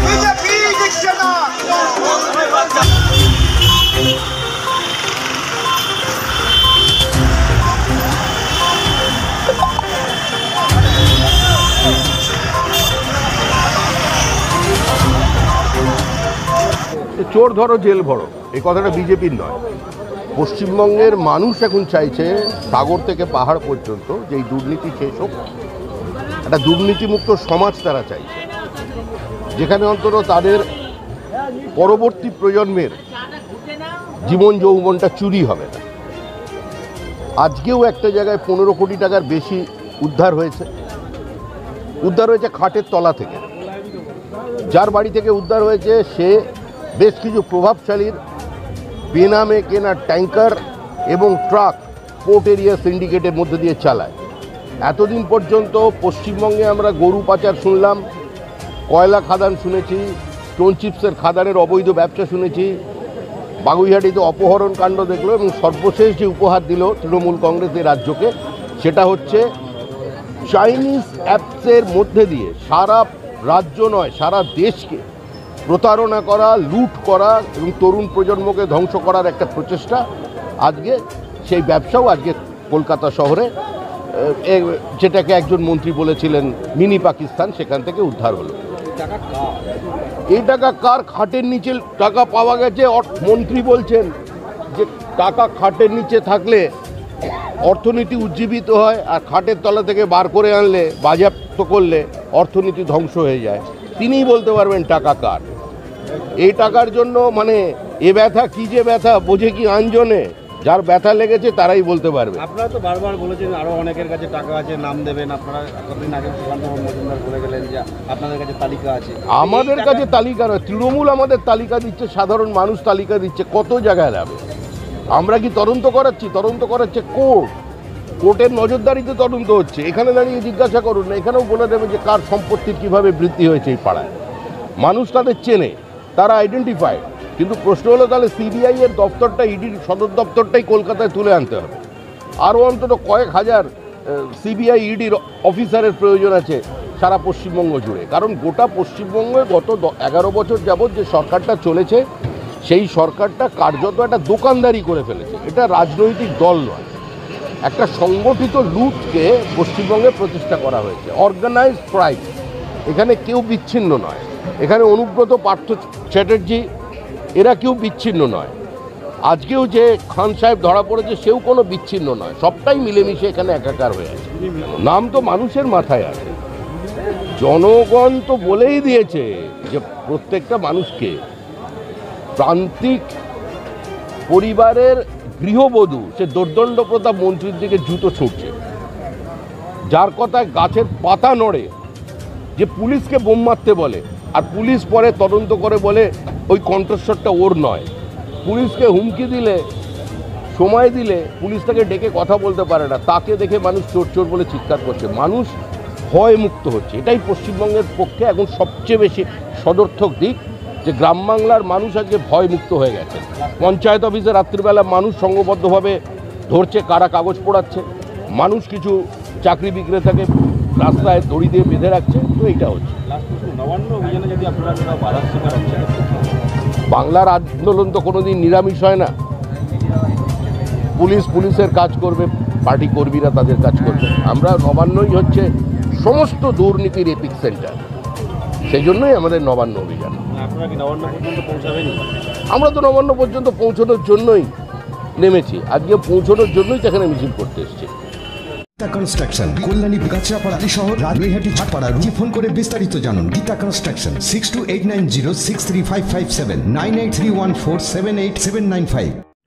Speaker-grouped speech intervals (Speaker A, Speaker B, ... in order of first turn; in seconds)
Speaker A: 17.2-19.6, 20.4-25.4, 26.5-28.4, 29.6-30.7, 31.8-33.0, 34.2-35.8, 37.4-40.7, 42.0-43.4, 44.7-46.5, 47.0-48.2, 49.1-54.2, 54.8-58.0, 58.9-62.8, 63.6-69.5, 70.5-75.0, 75.7-80.0, 80.6-83.5, 84.1-88.6, 90.3-94.1, 94.7-96.7, 97.6-105.5, 106.4-112.4, 119.3-124.4, 125.1-127.5, 128.2-134.1, 134.8-141.8, 142.4-152.0, 152.6-156.9, 157.7-162.3, 162.9-166.7, 167.4-168.6, 169.3-176.4, 177.4-181.2, 182.4-183.1, 184.3-188.6, 189.9-191.7, 192.6-197.9, 198.4-199.6, 200.5-205.6, 206.1-223.0, 226.9-229.1, 231.0-237.9, 238.7-240.2, 242.5-244.5, 245.2-247.9
Speaker B: 89.0-89.7, 112.4-120.1, 223.1-226.3, 240.3-242.1
Speaker C: 248.8-259.2